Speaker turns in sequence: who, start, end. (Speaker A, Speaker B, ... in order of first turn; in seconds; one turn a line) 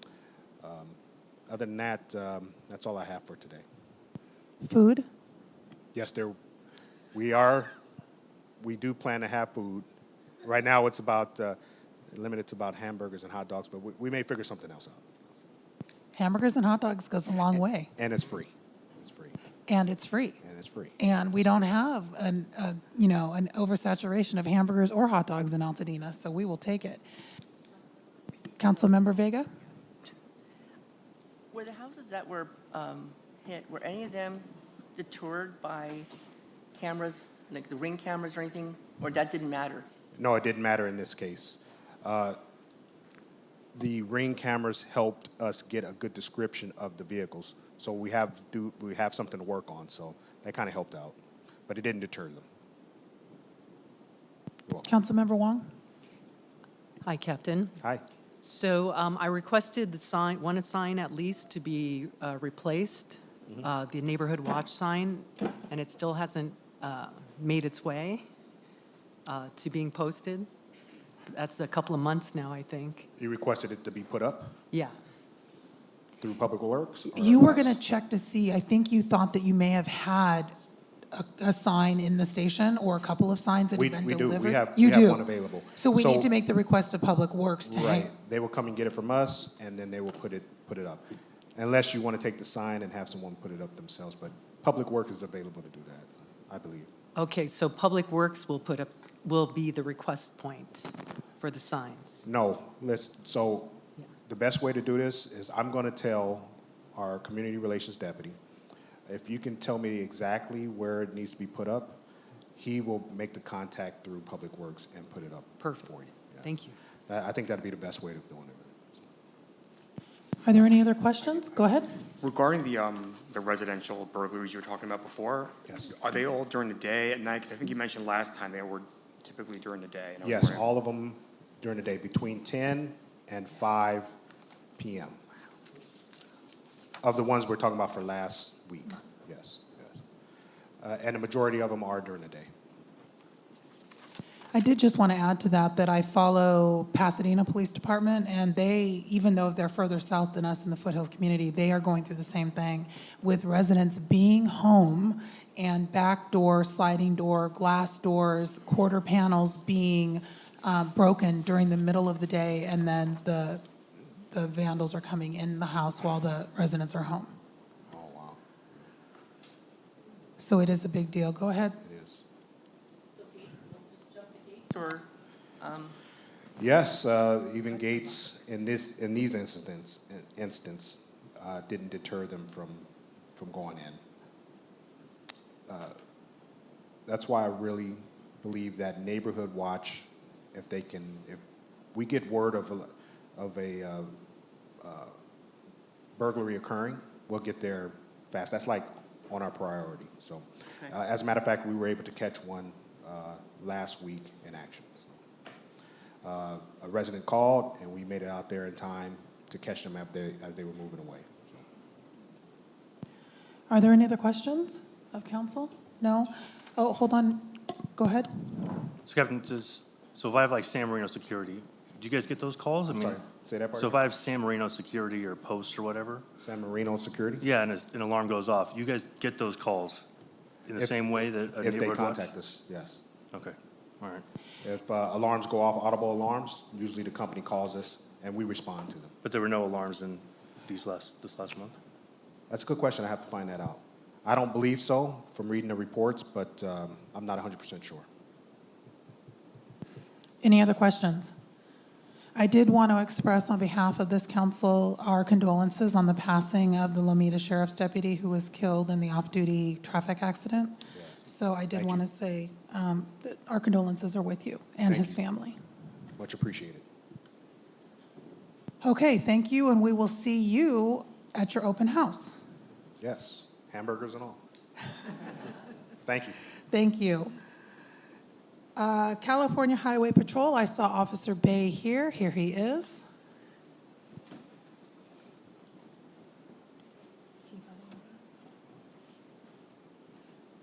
Speaker A: 0.6-3.6
Speaker B: 4.6-5.1
Speaker A: 5.9-6.4
Speaker A: 7.1-7.7
Speaker A: 8.6-9.9
Speaker A: 10.4-11.6
Speaker A: 12.1-15.4
Speaker B: 16.1-17.9
Speaker A: 17.5-19.4
Speaker B: 19.7-20.4
Speaker A: 20.4-21.0
Speaker B: 21.0-27.0
Speaker B: 28.6-29.5
Speaker C: 31.5-36.1
Speaker D: 33.9-34.3
Speaker D: 35.0-35.8
Speaker C: 36.7-39.9
Speaker D: 36.8-39.6
Speaker A: 40.2-42.4
Speaker A: 43.7-51.2
Speaker A: 51.7-52.4
Speaker B: 54.8-55.8
Speaker E: 57.0-57.8
Speaker E: 58.4-68.2
Speaker E: 69.2-70.5
Speaker E: 71.3-73.1
Speaker A: 73.2-74.5
Speaker A: 76.2-77.8
Speaker B: 77.1-80.5
Speaker B: 81.1-88.1
Speaker A: 83.8-86.3
Speaker A: 87.7-91.0
Speaker A: 91.5-96.9
Speaker E: 97.1-102.2
Speaker A: 102.2-108.4
Speaker A: 109.1-112.0
Speaker A: 112.5-116.5
Speaker E: 115.6-116.7
Speaker A: 117.1-118.7
Speaker B: 120.4-121.9
Speaker A: 121.2-121.6
Speaker D: 122.2-130.7
Speaker A: 130.2-134.1
Speaker A: 134.8-135.2
Speaker A: 137.0-139.8
Speaker A: 140.8-142.5
Speaker B: 144.5-163.7
Speaker B: 164.2-167.4
Speaker A: 167.9-168.4
Speaker B: 170.4-171.8
Speaker A: 171.8-172.2
Speaker C: 173.2-175.1
Speaker D: 174.4-174.8
Speaker C: 175.6-175.9
Speaker A: 176.6-184.0
Speaker A: 185.7-185.9
Speaker A: 187.1-191.4
Speaker A: 191.9-194.2
Speaker A: 194.8-195.2
Speaker A: 196.2-205.1
Speaker A: 206.2-211.6
Speaker B: 213.7-218.9
Speaker F: 219.1-223.2
Speaker A: 222.8-224.0
Speaker F: 223.7-226.2
Speaker A: 226.4-227.4
Speaker F: 227.4-230.1
Speaker F: 230.7-232.3
Speaker A: 231.6-233.0
Speaker F: 233.3-234.2
Speaker A: 234.6-239.1
Speaker F: 239.2-241.8
Speaker A: 242.5-248.1
Speaker B: 250.4-251.3
Speaker B: 252.3-265.6
Speaker A: 260.9-261.2
Speaker A: 261.7-262.0
Speaker A: 264.9-265.2
Speaker A: 266.2-266.8
Speaker B: 268.8-272.4
Speaker A: 273.0-274.4
Speaker A: 276.0-276.4
Speaker B: 276.7-277.4
Speaker B: 278.8-283.1